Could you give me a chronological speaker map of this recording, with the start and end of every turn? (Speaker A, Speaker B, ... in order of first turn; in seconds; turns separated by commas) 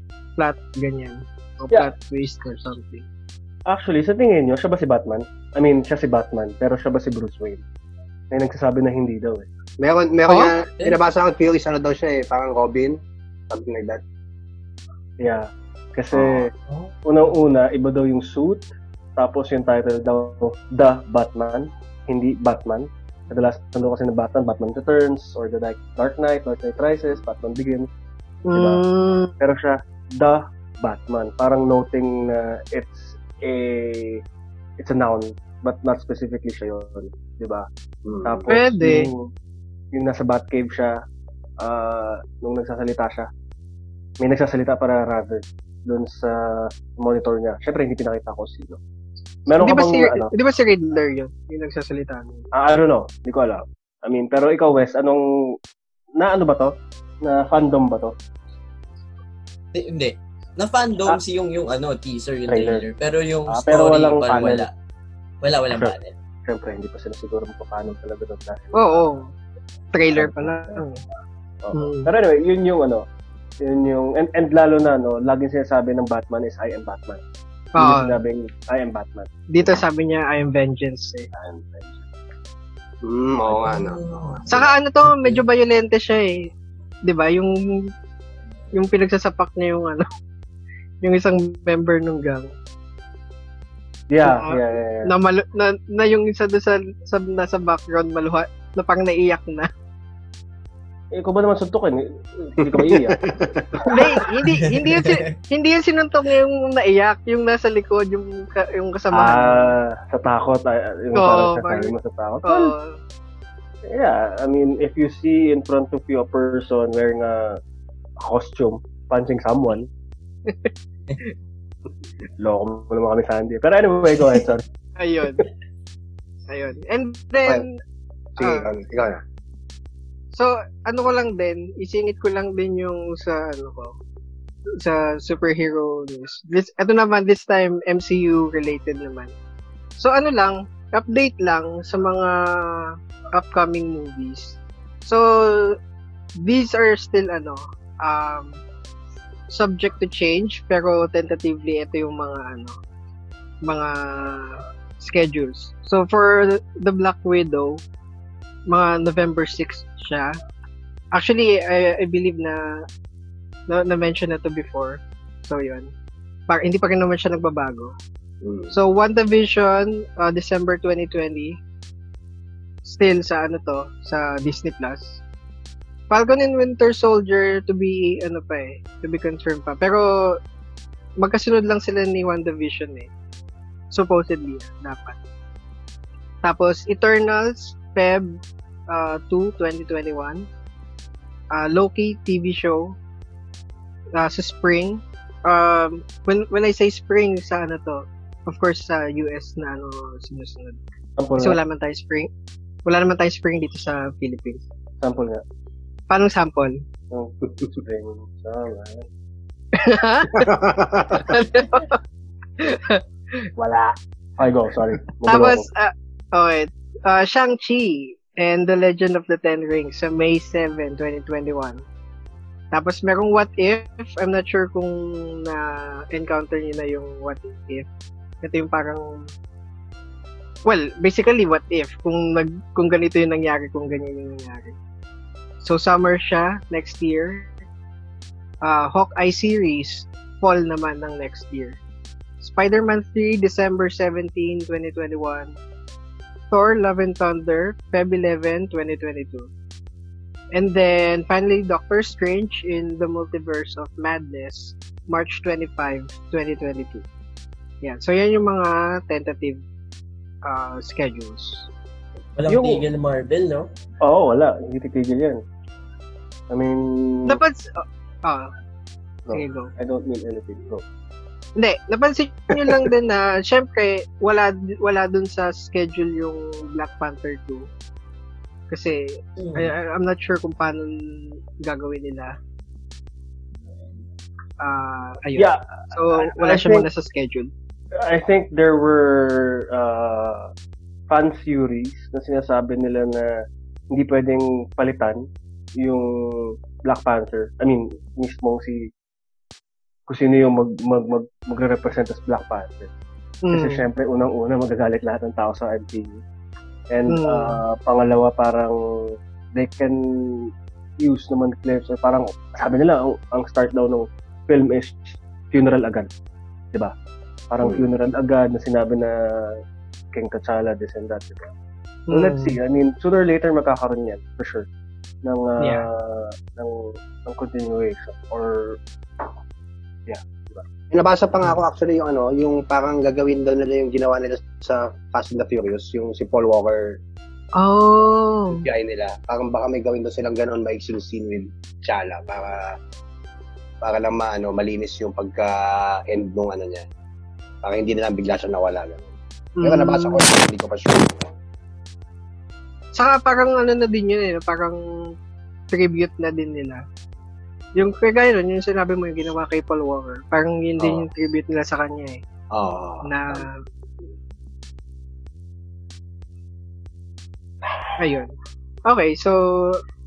Speaker A: 0.4-3.0, Speaker B: 3.7-7.6, Speaker B: 8.3-9.5, Speaker C: 9.8-14.0, Speaker A: 10.3-10.5, Speaker B: 15.2-16.5, Speaker C: 16.1-16.5, Speaker B: 17.1-27.9, Speaker A: 28.5-29.3, Speaker B: 28.5-28.8, Speaker B: 29.4-34.2, Speaker B: 34.8-37.7, Speaker C: 38.0-38.5, Speaker B: 38.2-39.3, Speaker A: 38.5-39.1, Speaker B: 39.9-41.0, Speaker B: 41.6-43.3, Speaker B: 44.2-48.8, Speaker B: 49.5-50.3, Speaker A: 49.6-52.5, Speaker B: 52.5-55.3, Speaker B: 56.2-58.1, Speaker D: 59.7-64.7, Speaker B: 62.5-62.8, Speaker B: 63.5-64.7, Speaker D: 65.4-66.1, Speaker B: 66.5-68.9, Speaker A: 68.7-69.3, Speaker A: 69.9-71.0, Speaker B: 70.1-70.8, Speaker B: 71.6-73.0, Speaker A: 71.7-72.1, Speaker B: 73.6-77.2, Speaker A: 77.8-78.2, Speaker B: 77.8-79.3, Speaker A: 79.5-81.3, Speaker C: 81.3-82.0, Speaker C: 83.0-84.7, Speaker D: 83.7-84.5, Speaker A: 84.5-86.5, Speaker A: 87.1-87.6, Speaker A: 88.8-90.0, Speaker A: 91.0-92.5, Speaker B: 94.1-95.1, Speaker A: 94.2-99.7, Speaker B: 101.1-103.2, Speaker C: 102.6-104.2, Speaker A: 103.9-109.7, Speaker D: 104.9-105.2, Speaker B: 109.1-112.7, Speaker A: 111.1-111.9, Speaker A: 112.5-113.0, Speaker B: 113.9-117.6, Speaker B: 118.2-119.9, Speaker B: 122.4-124.6, Speaker A: 125.0-125.5, Speaker A: 126.5-127.8, Speaker C: 128.4-129.2, Speaker A: 128.4-128.7, Speaker A: 130.3-133.9, Speaker A: 134.8-139.3, Speaker A: 140.0-145.8, Speaker A: 146.4-148.6, Speaker A: 149.5-152.8, Speaker A: 153.7-157.8, Speaker A: 158.7-160.3, Speaker A: 161.2-162.8, Speaker A: 163.7-165.9, Speaker A: 166.5-167.9, Speaker C: 168.4-168.7, Speaker A: 168.7-171.6, Speaker A: 172.8-175.2, Speaker A: 176.1-180.4, Speaker A: 181.2-183.1, Speaker A: 183.9-185.2, Speaker A: 186.4-188.4, Speaker A: 188.9-190.5, Speaker A: 191.5-193.0, Speaker A: 194.2-200.8, Speaker B: 201.2-201.6, Speaker A: 201.4-202.3, Speaker A: 202.9-204.6, Speaker B: 205.0-205.4, Speaker A: 206.1-206.8, Speaker B: 207.1-209.1, Speaker A: 209.8-210.5, Speaker C: 210.3-211.3, Speaker A: 211.1-212.0, Speaker A: 212.6-213.0, Speaker B: 213.6-215.7, Speaker A: 215.3-221.8, Speaker A: 222.7-227.8, Speaker A: 228.4-229.3, Speaker A: 230.7-234.8, Speaker A: 235.6-237.5, Speaker A: 238.6-241.8, Speaker A: 242.4-245.6, Speaker A: 246.5-249.5, Speaker A: 250.5-257.1, Speaker A: 257.8-259.6, Speaker A: 260.5-261.7, Speaker D: 262.4-263.7, Speaker B: 262.5-262.8, Speaker B: 264.0-265.4, Speaker B: 266.5-267.4, Speaker A: 267.3-268.5, Speaker A: 269.3-269.7, Speaker B: 269.8-270.8, Speaker A: 271.6-277.7, Speaker A: 278.7-282.4, Speaker A: 284.6-287.5, Speaker B: 285.4-286.9, Speaker B: 288.0-290.5, Speaker B: 291.1-293.3, Speaker B: 293.9-295.3, Speaker B: 295.8-298.9, Speaker B: 300.1-302.9, Speaker A: 303.4-303.8, Speaker B: 303.5-306.2, Speaker B: 306.9-310.5, Speaker A: 307.1-307.6, Speaker B: 311.0-316.1, Speaker B: 317.5-319.6, Speaker B: 320.1-321.5, Speaker A: 322.1-322.6, Speaker B: 322.1-324.7, Speaker B: 325.2-328.8, Speaker B: 330.1-330.6, Speaker C: 330.9-337.0, Speaker A: 337.6-338.6, Speaker C: 338.5-342.6, Speaker C: 343.8-346.9, Speaker C: 347.6-351.4, Speaker A: 349.6-350.2, Speaker A: 352.9-354.8, Speaker A: 355.7-356.8, Speaker A: 357.8-362.2, Speaker C: 360.8-361.1, Speaker C: 362.5-363.5, Speaker A: 363.1-363.6, Speaker A: 368.0-368.3, Speaker A: 368.9-369.8